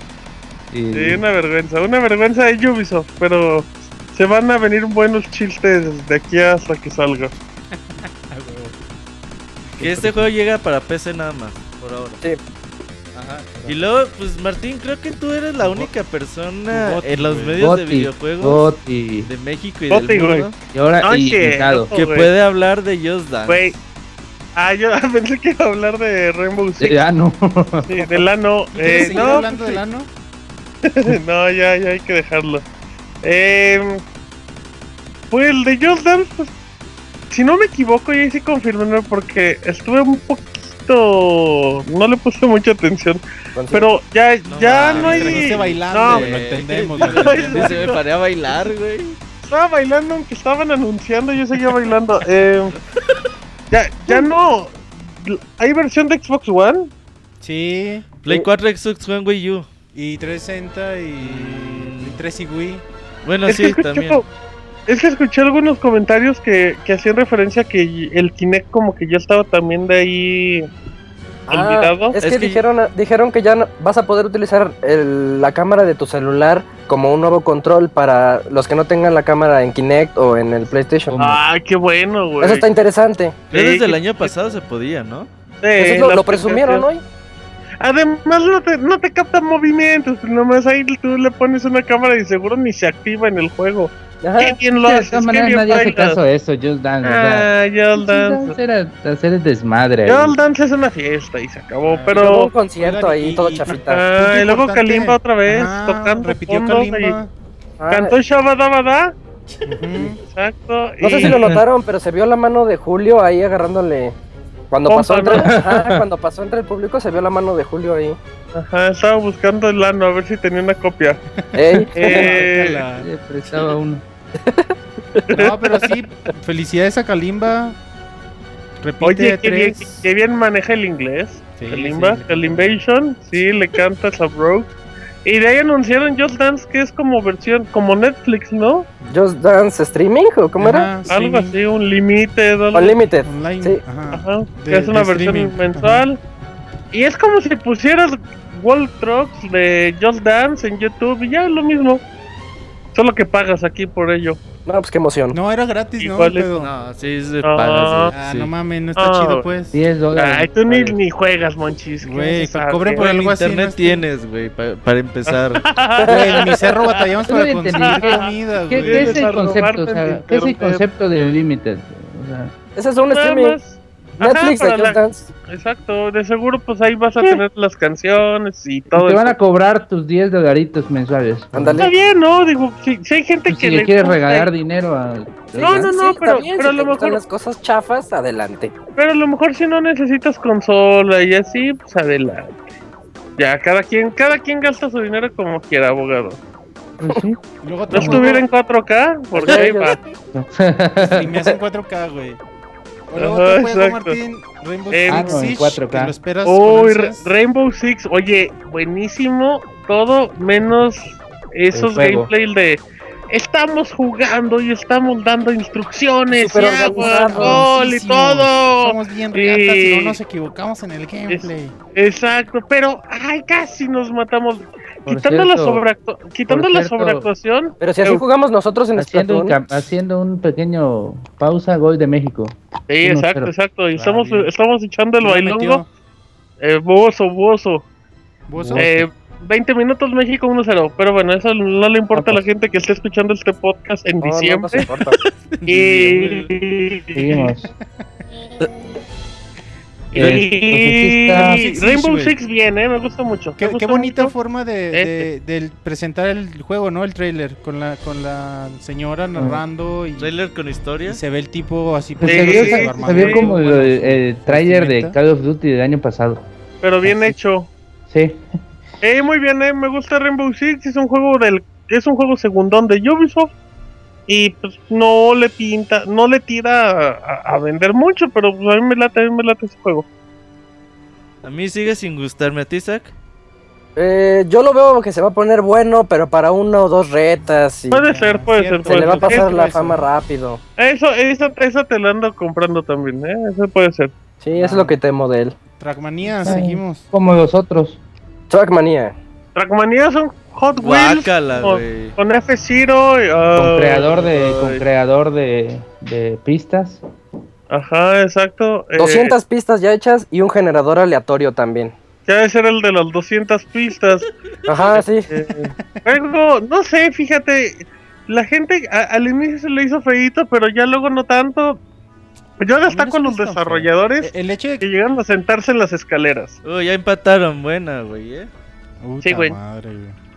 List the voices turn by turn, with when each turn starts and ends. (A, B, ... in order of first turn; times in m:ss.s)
0:00.7-0:01.2 A
0:00.9-0:07.3 B
0:07.7-0:08.8 C
0:09.7-0:10.3 C
0:09.8-0:12.2 D
0:13.1-0:18.7 D
0:15.6-0:15.9 C
0:16.7-0:17.7 C
0:17.6-0:19.3 A
0:19.2-0:20.5 D
0:19.9-0:20.5 B
0:20.7-0:21.9 A
0:21.0-0:22.3 B
0:21.9-0:23.6 D
0:23.5-0:23.8 B
0:24.6-0:27.0 B
0:26.8-0:28.2 A
0:27.8-0:29.8 B
0:28.7-0:30.1 C
0:30.8-0:32.6 B
0:33.2-0:34.0 B
0:35.3-0:36.5 B
0:37.3-0:43.2 B
0:43.5-0:43.9 E
0:43.7-0:48.0 B
0:44.4-0:49.2 D
0:44.8-0:47.8 C
0:49.4-0:52.7 B
0:52.7-0:53.1 D
0:53.7-0:56.9 B
0:57.4-0:58.0 C
0:58.2-0:59.7 D
0:59.9-1:02.8 C
1:01.2-1:02.2 D
1:03.2-1:04.2 D
1:03.5-1:04.2 B
1:04.9-1:10.6 B
1:11.5-1:21.4 E
1:11.5-1:12.2 B
1:12.1-1:12.6 D
1:21.2-1:22.7 B
1:22.4-1:23.4 E
1:23.5-1:25.3 D
1:23.5-1:24.3 B
1:25.6-1:26.8 B
1:25.8-1:27.0 E
1:27.8-1:36.2 B
1:34.2-1:34.6 E
1:34.8-1:40.4 A
1:37.0-1:38.6 B
1:40.0-1:42.5 B
1:41.8-1:47.3 C
1:42.1-1:44.0 E
1:43.9-1:47.2 B
1:47.8-1:49.1 B
1:47.9-1:48.1 E
1:49.5-1:50.2 C
1:50.2-1:51.5 B
1:51.0-1:54.2 E
1:51.2-1:51.6 A
1:54.7-1:58.2 E
1:54.9-1:55.5 B
1:55.3-1:56.0 A
1:58.5-2:01.2 B
2:01.3-2:03.1 C
2:01.5-2:02.3 E
2:02.0-2:02.8 B
2:03.0-2:04.0 A
2:04.4-2:05.3 E
2:05.3-2:05.8 B
2:05.3-2:07.8 C
2:08.8-2:10.1 C
2:09.0-2:14.7 B
2:11.5-2:12.7 C
2:15.2-2:18.9 B
2:19.1-2:20.9 E
2:20.6-2:21.6 C
2:21.1-2:23.0 B
2:22.7-2:23.8 E
2:23.2-2:26.0 C
2:24.1-2:26.2 B
2:26.9-2:32.0 B
2:32.9-2:34.4 B
2:34.6-2:35.4 E
2:35.3-2:36.7 C
2:36.0-2:36.5 B
2:36.6-2:38.5 D
2:37.4-2:38.1 B
2:38.1-2:39.8 C
2:39.0-2:39.4 B
2:39.7-2:41.0 A
2:40.2-2:43.3 B
2:42.0-2:44.0 C
2:43.0-2:45.7 D
2:45.3-2:50.8 B
2:46.0-2:46.4 E
2:46.0-2:49.3 C
2:47.3-2:52.5 A
2:52.8-2:53.6 E
2:53.0-2:59.3 B
2:54.2-2:55.3 E
2:58.9-3:01.9 A
3:01.5-3:01.9 E
3:01.8-3:04.5 B
3:03.5-3:05.9 A
3:05.5-3:08.7 E
3:05.6-3:07.2 B
3:09.0-3:12.6 B
3:13.4-3:16.4 B
3:17.0-3:17.4 A
3:17.6-3:18.4 C
3:17.9-3:20.0 B
3:17.9-3:18.2 A
3:19.3-3:20.0 E
3:20.3-3:21.4 A
3:21.0-3:22.4 C
3:23.1-3:27.2 C
3:23.2-3:24.2 B
3:24.9-3:25.4 B
3:25.1-3:26.1 A
3:26.4-3:40.2 B
3:31.7-3:32.3 A
3:36.3-3:37.7 E
3:36.6-3:41.8 C
3:41.3-3:48.2 B
3:45.1-3:45.8 A
3:46.5-3:47.3 A
3:47.8-3:49.6 E
3:49.0-3:53.5 A
3:52.9-3:55.8 B
3:53.9-3:54.5 C
3:55.2-3:55.9 C
3:56.6-3:57.8 B
3:58.5-3:58.9 C
3:58.6-3:59.0 A
3:58.8-4:04.8 B
4:02.1-4:02.5 A
4:04.2-4:05.2 E
4:05.5-4:06.5 C
4:05.7-4:07.5 B
4:07.2-4:07.7 A
4:10.1-4:14.3 B
4:10.1-4:10.4 C
4:10.1-4:11.6 A
4:11.3-4:12.3 C
4:13.6-4:20.3 C
4:14.9-4:15.3 B
4:19.4-4:19.6 A
4:20.2-4:21.2 D
4:21.0-4:25.2 C
4:22.2-4:26.4 A
4:22.2-4:23.5 B
4:26.8-4:27.7 B
4:27.0-4:27.3 A
4:28.1-4:28.4 A
4:29.0-4:33.5 B
4:34.3-4:40.0 B
4:41.4-4:43.1 D
4:44.0-4:48.0 E
4:47.9-4:49.5 B
4:48.1-4:50.0 C
4:48.8-4:50.6 E
4:50.8-4:54.1 B
4:54.4-4:55.5 E
4:54.6-4:55.0 C
4:55.8-4:57.1 C
4:56.4-4:58.0 A
4:58.5-4:59.2 E
4:59.5-5:04.8 B
5:00.8-5:02.2 D
5:03.6-5:07.0 A
5:07.7-5:09.4 B
5:09.0-5:11.9 E
5:12.2-5:21.8 B
5:14.7-5:15.3 E
5:15.5-5:16.0 C
5:22.6-5:24.3 B
5:22.8-5:24.8 C
5:24.8-5:26.6 B
5:26.6-5:28.5 D
5:29.0-5:30.2 C
5:29.2-5:29.6 B